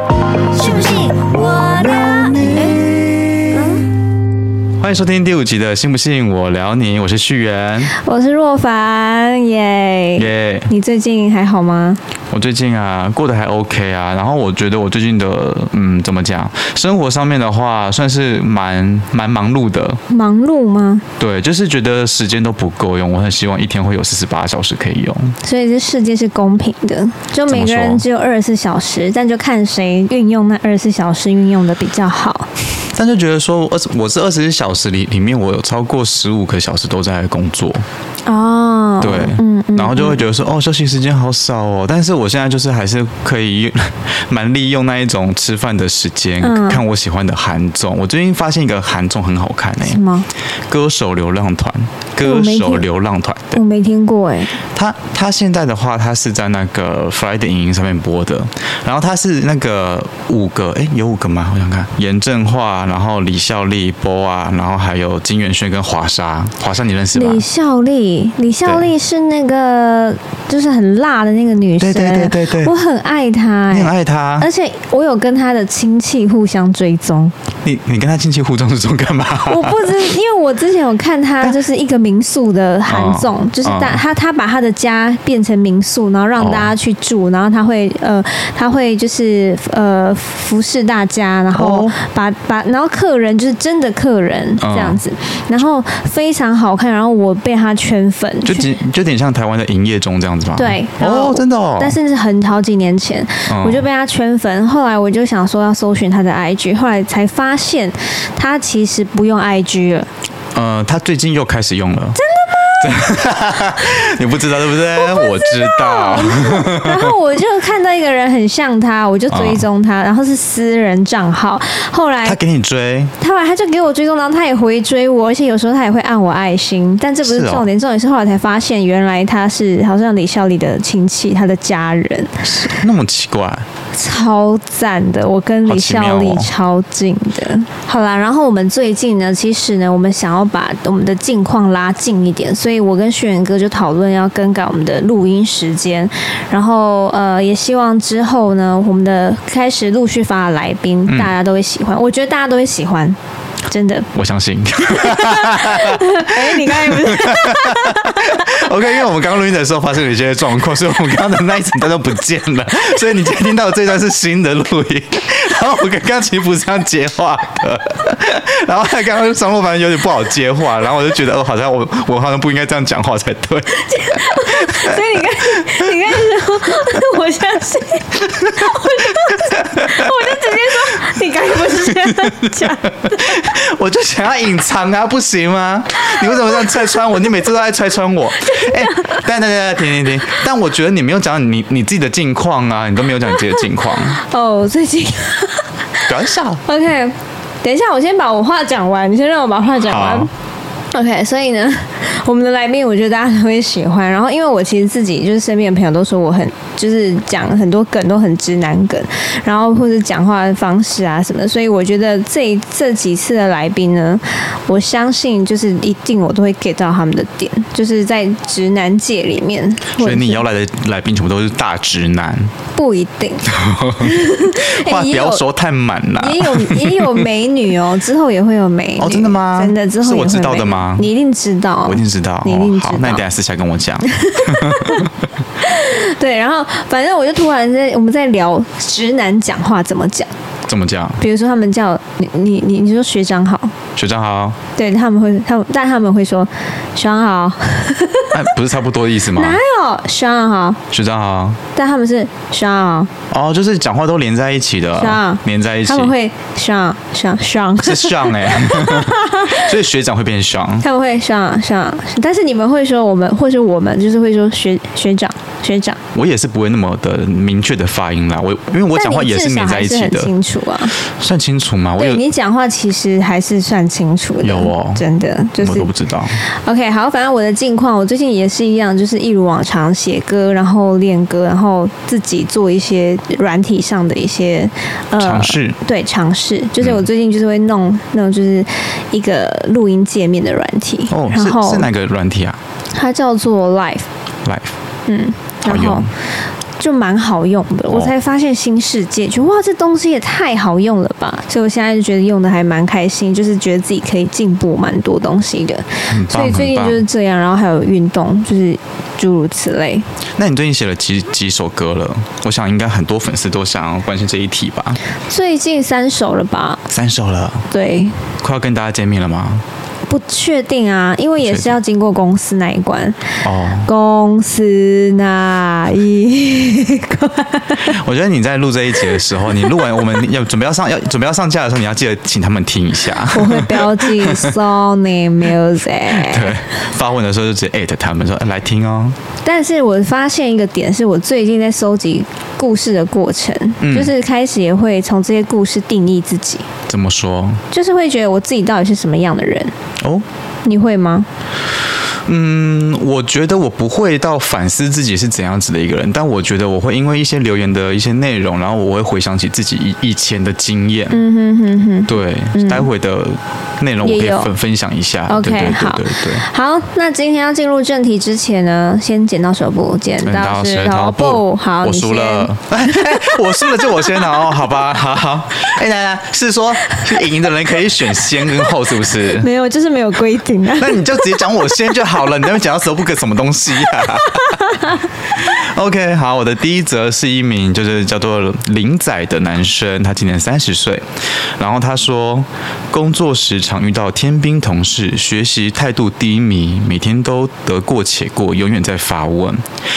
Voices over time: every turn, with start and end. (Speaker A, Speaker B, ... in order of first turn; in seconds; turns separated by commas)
Speaker A: 0.5-2.9, Speaker B: 2.1-3.6, Speaker A: 3.5-3.9, Speaker B: 4.8-7.9, Speaker A: 7.9-12.0, Speaker B: 10.2-10.7, Speaker B: 12.3-20.0, Speaker A: 20.1-21.0, Speaker B: 21.2-25.4, Speaker A: 25.4-32.5, Speaker B: 27.5-28.0, Speaker B: 32.9-37.8, Speaker A: 38.3-40.2, Speaker B: 39.0-50.0, Speaker A: 46.4-46.8, Speaker A: 49.8-50.3, Speaker B: 50.7-53.6, Speaker A: 52.2-52.9, Speaker A: 53.5-54.6, Speaker B: 54.7-67.4, Speaker A: 67.1-77.3, Speaker B: 71.8-72.7, Speaker B: 73.7-74.5, Speaker B: 77.6-80.0, Speaker A: 79.4-98.7, Speaker B: 82.9-84.0, Speaker B: 86.4-86.7, Speaker B: 91.5-92.0, Speaker B: 94.6-95.0, Speaker B: 98.5-102.0, Speaker A: 100.6-110.1, Speaker B: 103.5-103.9, Speaker B: 110.5-112.2, Speaker A: 112.2-114.1, Speaker B: 112.7-117.1, Speaker A: 114.9-122.4, Speaker B: 119.3-119.7, Speaker B: 122.2-123.1, Speaker A: 123.2-132.8, Speaker B: 127.2-127.7, Speaker B: 132.5-133.7, Speaker A: 133.9-153.2, Speaker B: 135.7-136.5, Speaker B: 151.1-151.3, Speaker A: 153.7-154.1, Speaker B: 154.1-175.9, Speaker A: 154.8-158.7, Speaker A: 173.8-183.2, Speaker B: 178.4-181.0, Speaker B: 181.6-194.2, Speaker A: 188.5-189.2, Speaker A: 193.5-200.3, Speaker B: 196.1-196.6, Speaker B: 199.8-200.3, Speaker A: 200.9-220.4, Speaker B: 220.0-222.5, Speaker A: 222.8-223.5, Speaker B: 223.4-227.3, Speaker A: 224.0-225.4, Speaker A: 226.2-233.2, Speaker B: 229.0-231.1, Speaker B: 231.8-235.2, Speaker A: 234.1-240.3, Speaker B: 240.7-241.2, Speaker A: 241.2-243.7, Speaker B: 244.0-244.6, Speaker A: 244.8-248.4, Speaker B: 248.3-249.6, Speaker A: 249.3-250.8, Speaker B: 250.9-251.6, Speaker A: 251.8-253.1, Speaker B: 253.3-256.1, Speaker A: 255.0-259.7, Speaker B: 257.8-260.9, Speaker A: 260.8-266.0, Speaker B: 266.1-270.3, Speaker A: 268.9-270.9, Speaker B: 270.9-272.2, Speaker A: 272.0-275.9, Speaker B: 274.4-275.0, Speaker B: 275.6-276.4, Speaker A: 276.6-291.9, Speaker B: 285.2-285.8, Speaker B: 286.8-287.1, Speaker B: 291.1-292.6, Speaker A: 292.9-294.1, Speaker B: 294.4-294.7, Speaker A: 295.1-296.1, Speaker B: 295.7-296.1, Speaker A: 296.8-310.1, Speaker B: 306.1-307.0, Speaker B: 310.4-315.0, Speaker A: 315.3-316.8, Speaker B: 316.9-317.7, Speaker A: 317.7-318.2, Speaker B: 318.4-319.6, Speaker A: 320.1-327.9, Speaker B: 323.4-323.9, Speaker B: 327.8-334.6, Speaker A: 329.0-330.2, Speaker A: 333.3-336.6, Speaker B: 336.1-339.2, Speaker A: 339.4-346.7, Speaker B: 343.8-344.1, Speaker B: 346.9-347.6, Speaker A: 347.7-349.7, Speaker B: 350.0-350.2, Speaker A: 350.6-351.3, Speaker B: 352.2-361.2, Speaker A: 361.1-362.9, Speaker B: 362.1-366.4, Speaker A: 364.0-364.5, Speaker A: 365.3-374.6, Speaker B: 370.2-379.5, Speaker A: 379.1-381.8, Speaker B: 380.8-384.6, Speaker A: 384.2-385.0, Speaker B: 385.2-391.1, Speaker B: 391.6-399.6